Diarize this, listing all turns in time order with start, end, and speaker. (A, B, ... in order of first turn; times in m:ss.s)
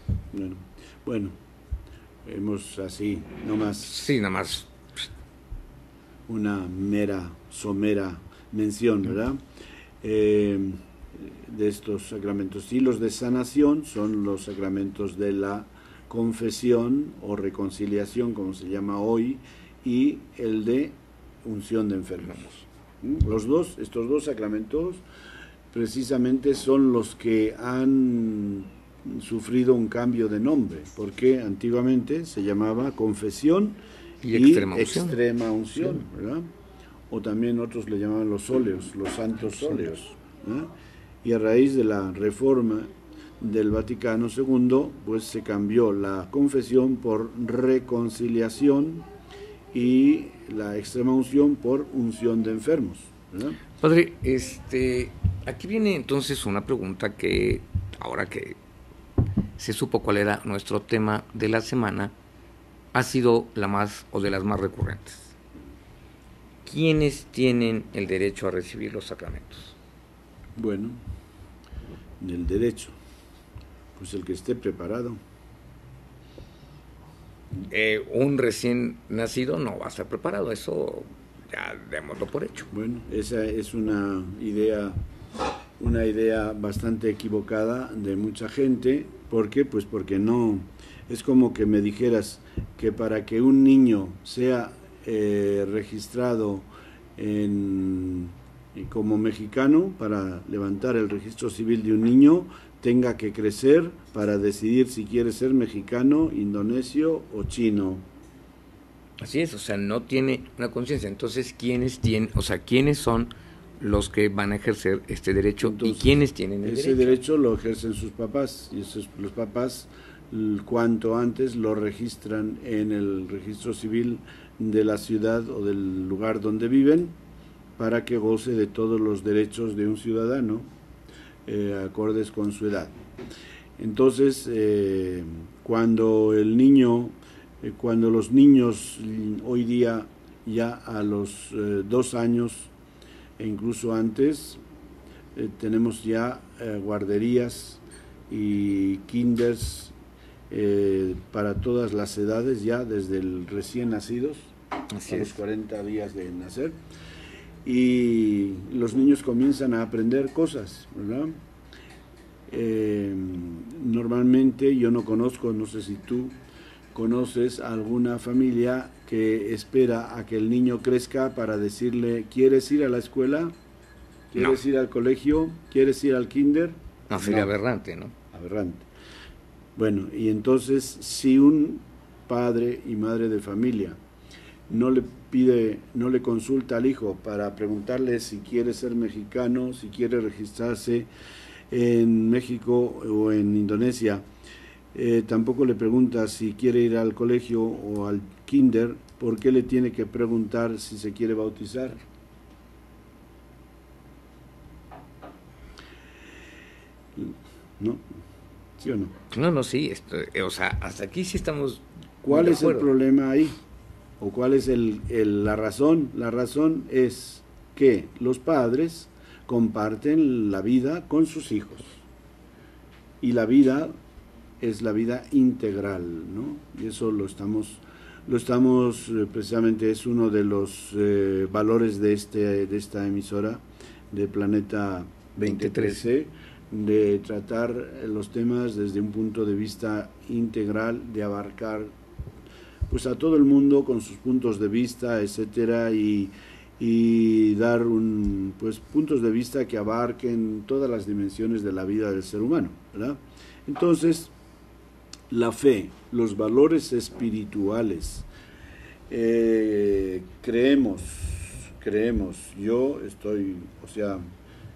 0:00.3-0:01.3 A
0:02.2-0:03.9 A
0:03.8-0:04.7 B
0:06.3-0:09.4 A
0:10.0-0:25.0 A
0:25.7-0:33.8 A
0:34.2-0:35.2 B
0:34.3-0:36.5 A
0:37.1-0:40.7 A
0:41.2-0:42.9 A
0:43.4-0:49.1 A
0:49.7-0:53.6 A
0:53.8-0:58.6 B
0:59.6-1:02.1 B
1:02.9-1:05.3 B
1:06.6-1:09.8 B
1:10.6-1:11.0 A
1:12.2-1:13.0 A
1:14.0-1:15.2 A
1:17.6-1:22.7 B
1:22.7-1:25.0 A
1:25.8-1:48.0 A
1:49.2-1:57.2 B
1:55.6-1:56.1 A
1:56.6-2:07.1 A
2:07.8-2:10.7 A
2:11.5-2:12.9 A
2:13.8-2:22.7 A
2:23.4-2:24.6 A
2:25.4-2:29.9 A
2:30.5-2:34.5 A
2:34.9-2:35.4 B
2:35.1-2:36.8 A
2:37.6-2:41.3 A
2:42.5-2:46.3 A
2:46.9-2:53.5 A
2:54.3-2:57.5 A
2:57.1-2:58.1 B
2:58.3-2:58.9 A
2:59.8-3:04.0 A
3:04.7-3:11.1 A
3:11.7-3:14.2 A
3:14.9-3:22.0 A
3:27.2-3:28.0 A
3:28.8-3:29.1 A
3:29.3-3:32.9 B
3:32.2-3:33.6 A
3:34.2-3:42.0 A
3:43.2-3:43.9 A
3:44.6-4:01.9 A
3:55.4-3:56.1 B
4:02.9-4:14.3 A
4:15.3-4:18.3 A
4:19.1-4:24.2 A